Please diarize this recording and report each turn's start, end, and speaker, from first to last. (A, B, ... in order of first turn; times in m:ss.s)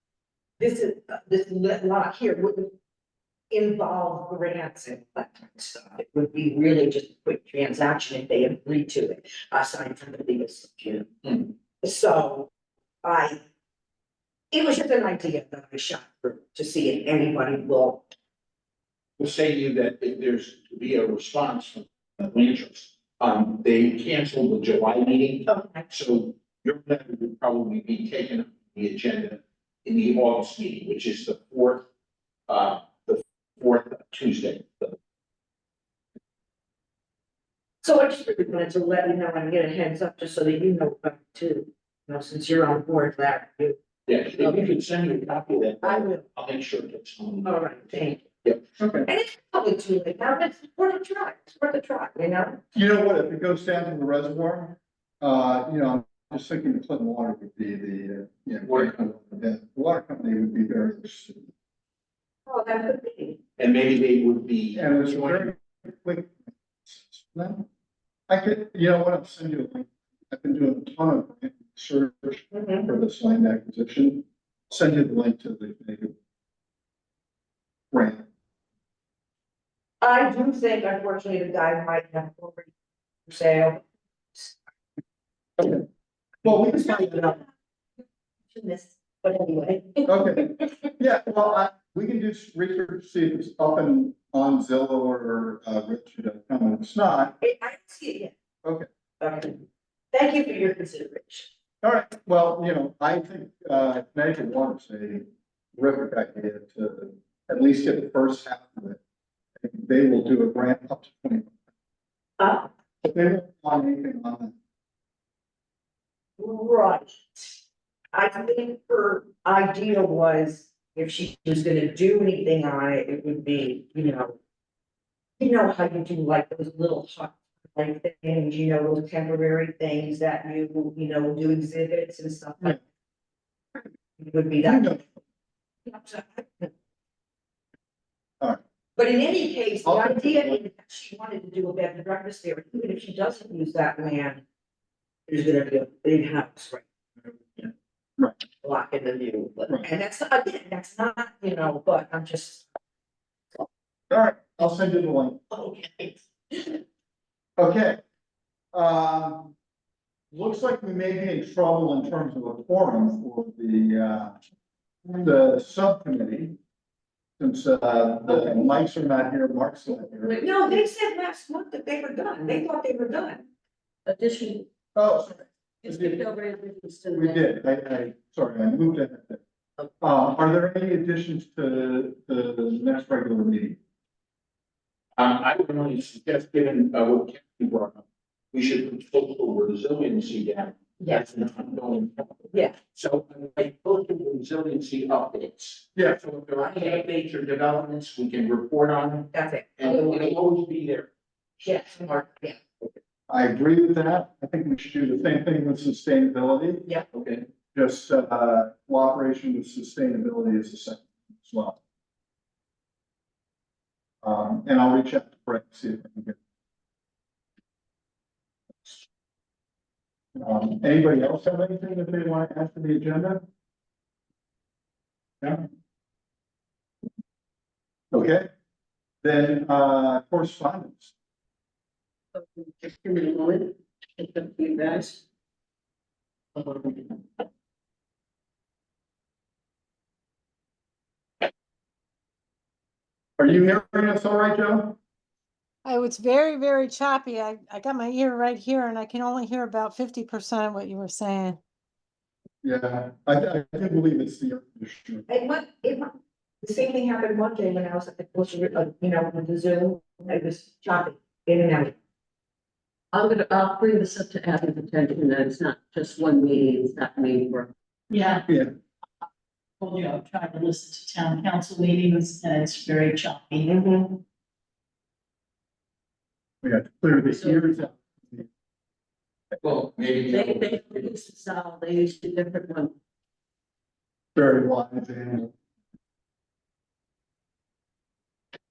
0:00.6-0:02.7 A
0:03.5-0:12.5 A
0:13.0-0:13.4 A
0:14.5-0:18.1 A
0:19.2-0:31.9 B
0:25.5-0:25.9 A
0:32.5-0:35.0 B
0:37.8-0:43.8 A
0:44.1-0:48.6 B
0:44.4-0:44.7 A
0:45.8-0:46.2 A
0:47.4-0:48.3 A
0:48.8-0:49.1 C
0:49.0-0:52.6 A
0:52.7-1:01.5 C
0:58.6-0:59.2 B
1:02.5-1:03.4 A
1:03.6-1:05.5 B
1:04.8-1:07.7 C
1:08.3-1:16.2 C
1:12.5-1:12.9 A
1:17.9-1:18.2 C
1:20.0-1:22.7 A
1:23.3-1:24.6 A
1:26.4-1:27.4 C
1:26.5-1:27.5 A
1:28.5-1:30.8 A
1:30.1-1:37.4 C
1:37.4-1:38.3 A
1:39.2-1:41.5 A
1:41.8-1:49.0 C
1:49.6-1:51.5 C
1:52.4-1:52.7 A
1:53.0-1:54.5 C
1:56.4-1:57.6 A
1:58.1-2:04.4 A
2:05.4-2:12.8 A
2:13.8-2:15.0 A
2:14.6-2:15.1 C
2:15.9-2:16.7 A
2:19.0-2:24.4 A
2:19.8-2:20.6 C
2:25.3-2:26.8 A
2:27.3-2:28.4 C
2:28.6-2:32.7 A
2:34.1-2:35.4 C
2:35.5-2:36.8 A
2:37.6-2:38.0 C
2:38.7-2:39.5 C
2:40.3-2:44.4 C
2:45.2-2:46.6 C
2:47.4-2:50.4 C
2:50.3-2:53.5 A
2:54.1-2:54.7 D
2:55.0-2:56.2 C
2:55.8-2:57.5 D
2:57.1-2:59.4 C
3:00.0-3:03.8 C
3:05.2-3:21.1 B
3:11.0-3:11.2 A
3:16.6-3:17.0 A
3:19.3-3:20.4 A
3:21.6-3:22.6 A
3:23.3-3:26.9 C
3:27.1-3:27.5 B
3:27.7-3:31.8 C
3:34.2-3:36.4 C
3:40.4-3:43.4 C
3:48.1-3:48.5 C
3:49.2-3:51.1 C
3:52.4-3:55.2 D
3:56.6-3:57.0 D
4:03.4-4:05.0 C
4:05.8-4:11.6 E
4:12.6-4:15.2 C
4:15.3-4:22.0 A
4:23.1-4:27.7 D
4:28.1-4:28.5 F
4:28.5-4:28.7 C
4:29.8-4:33.9 F
4:33.9-4:34.2 D
4:36.6-4:38.5 C
4:37.4-4:37.6 D
4:39.6-4:41.1 B
4:40.3-4:43.0 D
4:44.4-4:45.5 C